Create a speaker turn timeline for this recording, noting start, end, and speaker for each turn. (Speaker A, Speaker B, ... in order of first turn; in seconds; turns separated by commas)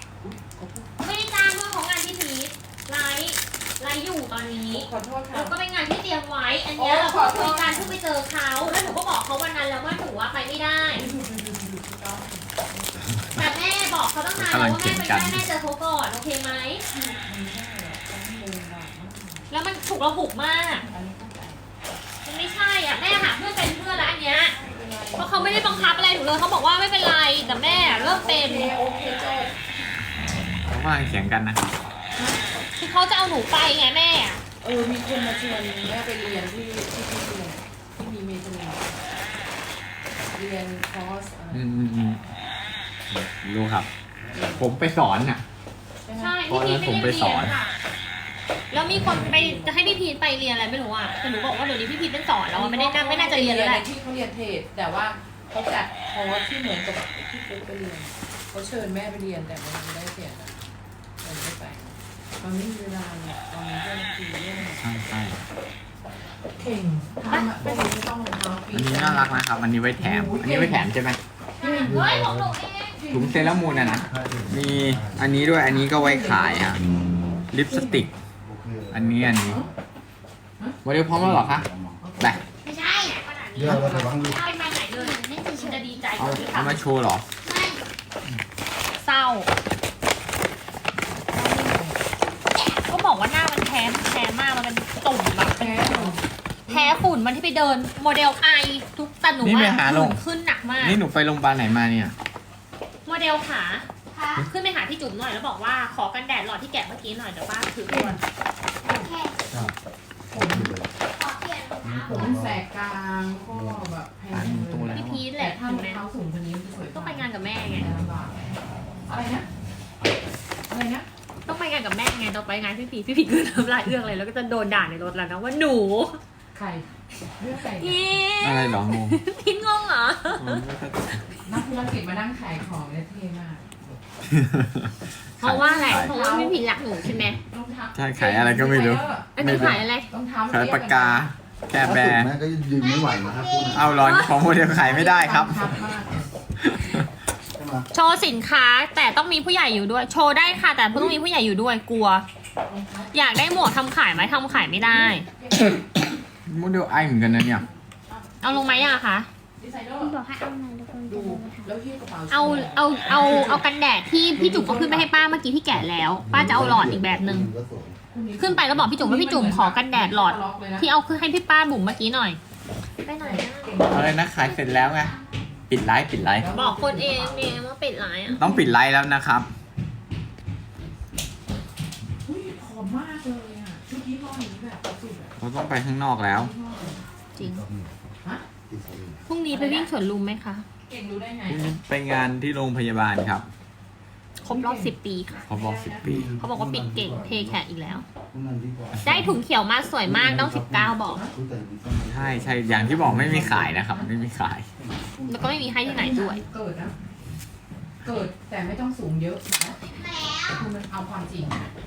Speaker A: 0.2-0.9, Speaker B: 1.0-11.1, Speaker A: 4.7-5.5, Speaker A: 6.8-8.0, Speaker A: 10.9-13.0, Speaker B: 13.3-16.8, Speaker C: 14.4-15.5, Speaker A: 16.9-19.5, Speaker B: 19.5-20.9, Speaker A: 20.9-21.7, Speaker B: 22.2-24.6, Speaker A: 24.5-26.1, Speaker B: 25.2-28.7, Speaker A: 27.4-29.6, Speaker C: 30.6-31.7, Speaker A: 32.2-32.5, Speaker B: 32.8-34.4, Speaker A: 34.6-39.0, Speaker A: 40.3-41.6, Speaker C: 41.5-42.2, Speaker C: 43.1-45.4, Speaker A: 46.0-46.5, Speaker B: 46.1-47.6, Speaker C: 46.5-47.6, Speaker B: 48.7-53.9, Speaker A: 49.0-49.8, Speaker A: 52.5-60.6, Speaker A: 61.2-64.8, Speaker C: 64.7-65.4, Speaker A: 66.5-69.4, Speaker B: 67.3-67.7, Speaker C: 68.7-71.2, Speaker A: 70.0-70.9, Speaker B: 71.6-73.0, Speaker A: 71.6-72.0, Speaker D: 71.8-72.6, Speaker A: 73.0-74.1, Speaker C: 73.1-76.8, Speaker D: 74.1-75.3, Speaker A: 75.7-76.7, Speaker C: 77.5-78.1, Speaker A: 77.7-78.0, Speaker D: 78.4-79.4, Speaker C: 78.9-79.6, Speaker A: 79.4-79.7, Speaker C: 80.8-81.7, Speaker D: 81.1-82.1, Speaker A: 82.0-82.4, Speaker E: 82.6-83.2, Speaker B: 82.8-86.8, Speaker D: 83.5-84.4, Speaker A: 83.7-84.1, Speaker E: 84.2-86.6, Speaker C: 86.2-87.2, Speaker E: 87.4-87.8, Speaker B: 89.0-89.5, Speaker A: 91.2-92.0, Speaker B: 92.7-96.2, Speaker A: 95.5-97.0, Speaker B: 96.7-101.0, Speaker C: 99.4-100.2, Speaker C: 100.8-102.2, Speaker B: 103.1-108.2, Speaker E: 104.1-104.5, Speaker A: 107.9-108.2, Speaker E: 108.8-109.4, Speaker D: 109.5-109.8, Speaker D: 110.3-110.9, Speaker A: 110.3-110.7, Speaker E: 111.1-112.3, Speaker D: 111.8-112.6, Speaker A: 112.1-118.3, Speaker D: 113.5-113.9, Speaker C: 114.3-115.3, Speaker B: 114.9-116.0, Speaker B: 116.9-117.9, Speaker A: 119.1-119.5, Speaker A: 120.7-121.1, Speaker B: 121.5-126.2, Speaker A: 126.5-126.9, Speaker A: 127.4-128.1, Speaker B: 127.6-130.6, Speaker C: 128.4-129.2, Speaker C: 130.3-131.4, Speaker A: 131.4-133.8, Speaker C: 134.3-136.1, Speaker B: 135.4-137.4, Speaker A: 135.7-136.7, Speaker A: 137.5-141.3, Speaker C: 137.9-139.8, Speaker B: 139.4-140.1, Speaker C: 140.5-142.3, Speaker D: 141.8-143.9, Speaker E: 142.8-144.1, Speaker C: 143.7-145.7, Speaker B: 143.9-144.4, Speaker A: 144.9-146.3, Speaker C: 146.6-147.1, Speaker D: 147.5-147.9, Speaker B: 147.9-152.3, Speaker A: 152.7-155.8, Speaker B: 153.1-155.3, Speaker C: 156.5-157.7, Speaker A: 157.1-159.0, Speaker B: 158.4-159.3, Speaker A: 159.6-160.1, Speaker E: 160.0-161.7, Speaker A: 161.1-163.6, Speaker B: 162.3-167.5, Speaker A: 164.3-165.1, Speaker D: 165.7-168.0, Speaker A: 166.6-166.9, Speaker A: 168.1-170.9, Speaker B: 168.4-172.4, Speaker B: 173.0-173.9, Speaker A: 173.2-174.3, Speaker C: 173.9-175.2, Speaker E: 174.5-175.4, Speaker C: 175.7-176.5, Speaker A: 176.4-177.6, Speaker B: 176.5-178.4, Speaker C: 178.3-179.5, Speaker A: 178.3-178.7, Speaker A: 182.2-185.3, Speaker C: 185.4-186.5, Speaker A: 186.3-187.0, Speaker B: 187.3-187.6, Speaker D: 187.4-188.0, Speaker D: 188.7-189.3, Speaker B: 189.3-190.7, Speaker A: 189.5-189.9, Speaker A: 190.9-191.7, Speaker C: 191.5-193.5, Speaker B: 194.4-195.5, Speaker A: 194.4-194.9, Speaker A: 195.5-196.1, Speaker C: 195.5-196.3, Speaker D: 196.0-197.6, Speaker B: 196.4-198.1, Speaker D: 198.3-199.4, Speaker B: 199.0-201.2, Speaker D: 200.1-203.7, Speaker A: 201.1-201.3, Speaker C: 202.1-204.7, Speaker A: 203.1-204.1, Speaker D: 204.8-206.1, Speaker B: 205.3-206.4, Speaker A: 205.8-206.9, Speaker A: 208.0-209.8, Speaker E: 209.9-210.7, Speaker A: 210.5-211.7